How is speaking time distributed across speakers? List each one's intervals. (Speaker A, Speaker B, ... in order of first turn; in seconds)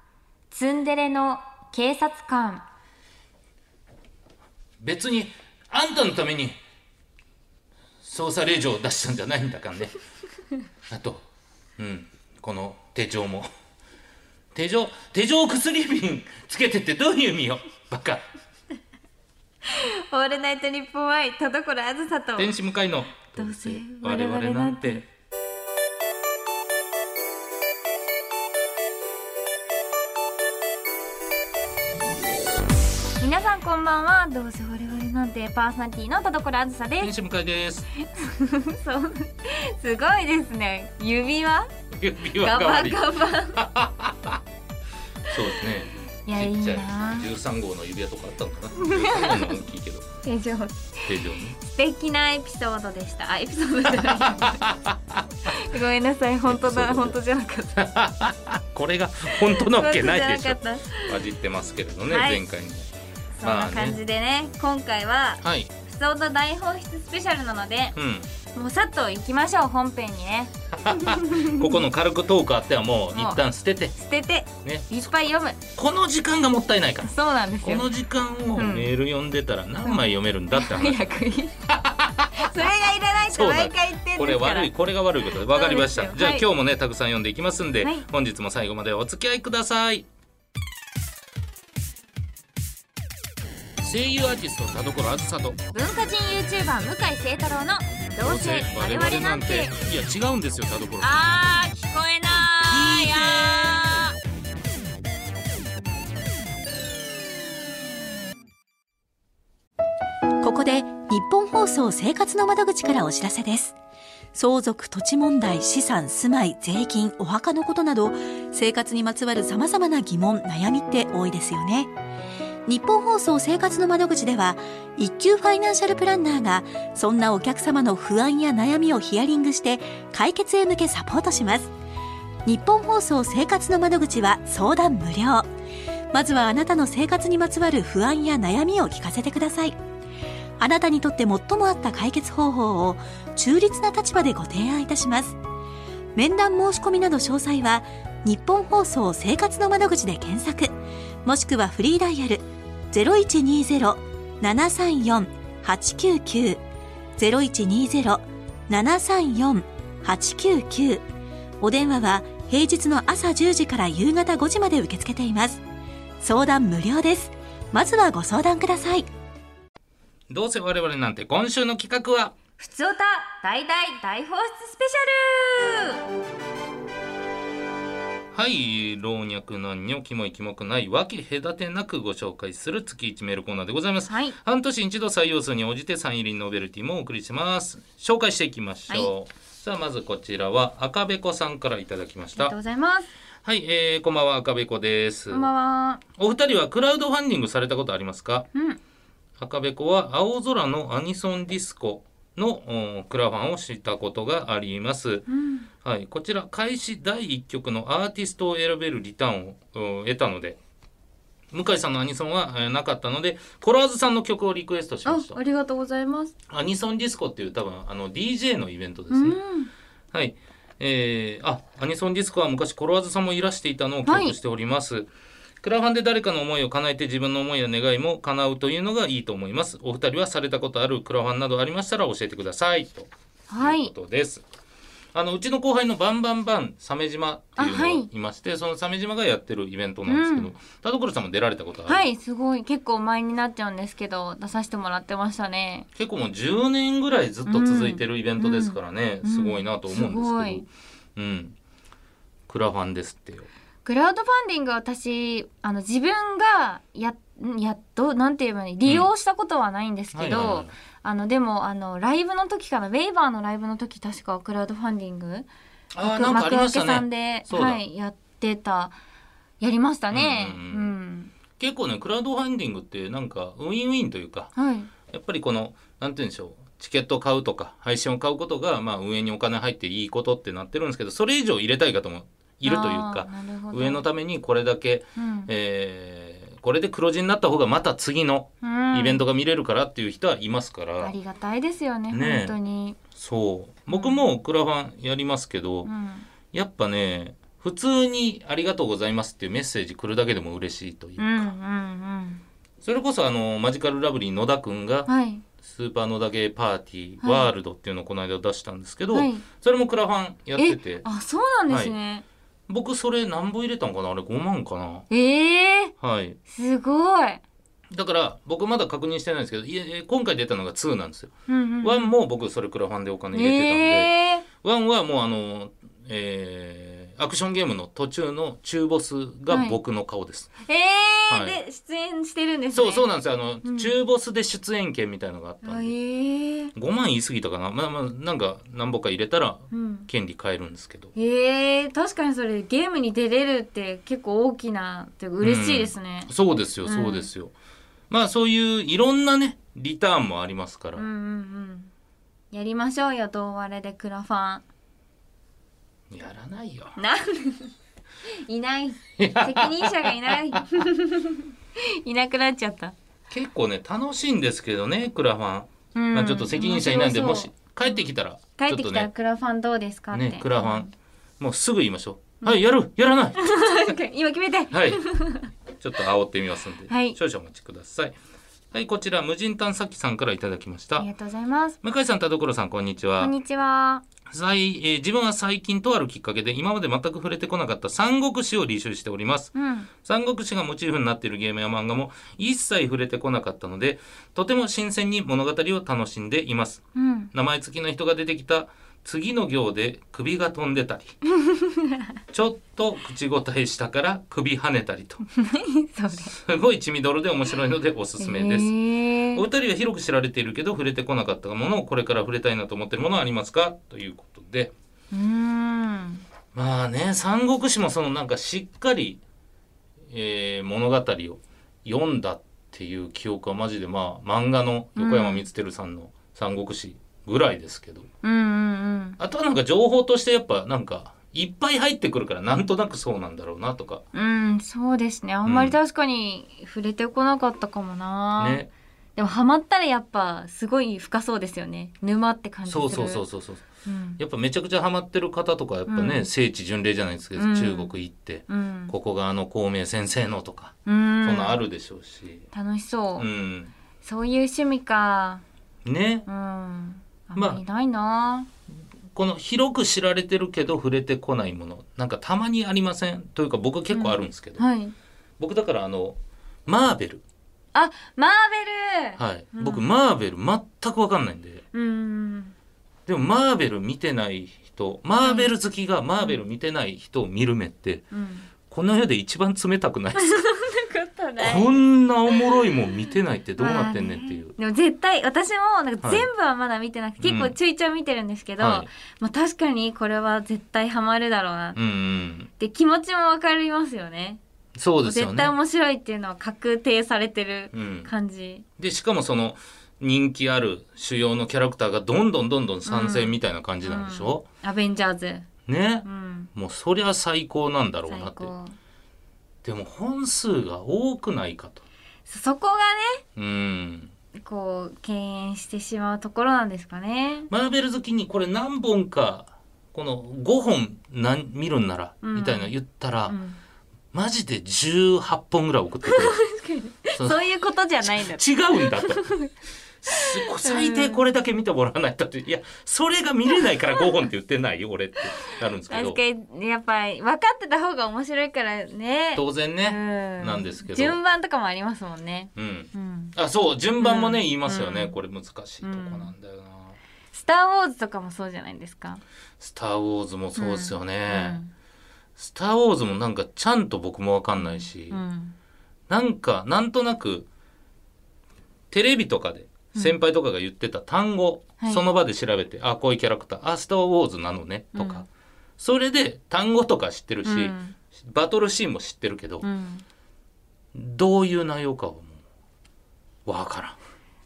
Speaker A: 0.5-2.6, 19.6-22.6, 23.3-25.1, 33.2-37.1, 38.0-41.7, 42.4-43.6, 45.3-45.6, 46.3-47.3, 48.8-49.6, 50.2-54.7, 55.5-57.9, 59.4-61.2, 62.1-62.4, 63.4-68.0, 68.5-71.8, 73.1-73.4, 74.0-75.6, 77.0-77.9, 78.6-78.9, 79.8-81.6, 82.3-84.7, 85.5-86.5, 95.7-99.8, 101.0-104.1, 172.6-176.0, 184.1-184.4, 192.4-193.1, 195.3-196.0, 198.5-198.8, 205.3-205.7, 215.1-216.3, 219.1-219.7, 224.1-224.3, 233.5-233.9, 237.6-238.1, 240.1-240.5, 241.9-245.9, 247.5-250.6, 253.8-265.5, 266.0-269.0, 269.6-271.3, 274.6-274.9, 282.6-284.1, 285.2-285.5, 288.6-289.2, 291.0-293.0, 293.9-294.2, 295.9-296.3, 301.2-302.4, 305.1-305.4, 307.2-307.5, 309.1-309.4, 310.6-312.2, 315.1-315.9, 316.5-317.4, 321.5-322.1, 323.3-324.4, 329.5-329.8, 330.7-333.1, 333.6-333.9, 335.6-336.7, 339.7-340.1, 341.1-346.3, 346.9-347.3, 350.9-351.9, 352.5-354.6, 357.0-357.7, 358.4-362.9, 365.9-368.0, 368.6-370.9, 373.4-375.5, 376.9-377.2, 381.0-381.8, 383.2-384.1, 389.6-389.9, 396.9-397.3, 401.3-402.1, 405.3-406.4, 408.2-409.4, 415.1-416.2, 425.0-425.4, 428.2-429.2, 434.1-438.6, 439.2-443.2, 443.9-444.2, 445.9-446.3, 447.4-447.9, 448.5-448.9, 450.9-451.6, 452.5-453.3, 454.0-455.4, 456.3-458.5, 463.9-464.9, 467.7-469.9, 471.7-472.5, 475.2-475.5, 478.1-478.5, 480.2-482.4, 483.6-491.8, 492.6-494.4, 495.0-498.6, 502.9-505.5, 506.0-506.5, 508.1-508.8, 512.3-513.2, 514.4-517.5, 522.2-522.7, 523.3-523.6, 526.1-529.5, 530.1-531.2, 535.9-543.4, 544.0-545.2, 545.8-546.3, 547.3-549.2, 550.6-551.7, 554.6-555.6, 565.0-565.3, 567.4-568.0, 569.6-570.0
Speaker B: 4.8-6.6, 8.0-10.0, 10.9-11.2, 11.8-13.5, 14.5-18.2, 22.4-25.0, 37.0-37.9, 41.9-44.4, 45.3-50.1, 51.0-51.6, 53.9-55.2, 56.5-57.2, 57.8-62.9, 63.4-64.0, 65.4-65.7, 68.0-68.3, 70.7-73.9, 74.6-75.0, 75.8-81.1, 81.7-82.6, 83.3-90.1, 93.8-95.6, 98.2-101.2, 170.3-172.4, 178.3-192.6, 193.4-195.5, 196.2-198.5, 199.4-205.3, 205.8-210.6, 211.5-215.4, 216.5-219.4, 220.1-225.1, 225.6-234.4, 235.1-242.1, 246.0-251.6, 252.5-253.5, 260.1-260.7, 265.9-267.8, 270.1-270.9, 271.6-274.5, 275.1-291.1, 292.1-292.6, 293.1-295.9, 296.5-301.5, 302.8-311.1, 311.7-311.9, 312.7-315.1, 316.0-316.4, 317.9-330.5, 331.3-331.6, 332.7-335.9, 336.8-341.1, 345.4-347.5, 348.1-351.1, 356.1-357.0, 359.2-360.6, 363.3-369.1, 370.1-370.9, 371.4-373.9, 374.7-375.0, 375.8-378.2, 378.7-381.1, 381.8-383.3, 384.3-401.2, 402.3-405.2, 406.1-408.7, 409.3-414.7, 416.5-419.2, 420.1-428.1, 429.2-434.0, 435.4-435.8, 438.4-438.7, 442.7-443.7, 444.2-452.5, 453.2-453.7, 455.9-456.3, 457.4-457.6, 459.1-464.6, 465.4-467.2, 469.2-471.6, 473.1-478.1, 478.7-480.4, 481.4-484.5, 486.0-486.3, 487.2-487.6, 488.6-488.9, 491.8-492.5, 494.8-495.5, 497.7-498.1, 498.8-504.4, 505.7-508.5, 509.6-511.8, 513.4-514.1, 517.5-523.4, 524.1-526.4, 527.1-527.4, 528.0-529.3, 530.0-536.2, 539.4-541.2, 542.6-547.0, 549.6-551.6, 552.4-555.2, 556.1-557.5, 558.9-565.3, 565.8-569.7, 570.9-572.4, 573.5-574.0
Speaker C: 102.7-103.7, 110.4-113.8, 114.3-121.9, 122.7-131.7, 132.4-135.5, 136.1-139.8, 140.6-145.4, 146.2-150.7, 151.2-156.6, 157.2-161.1, 161.6-165.6, 166.2-169.1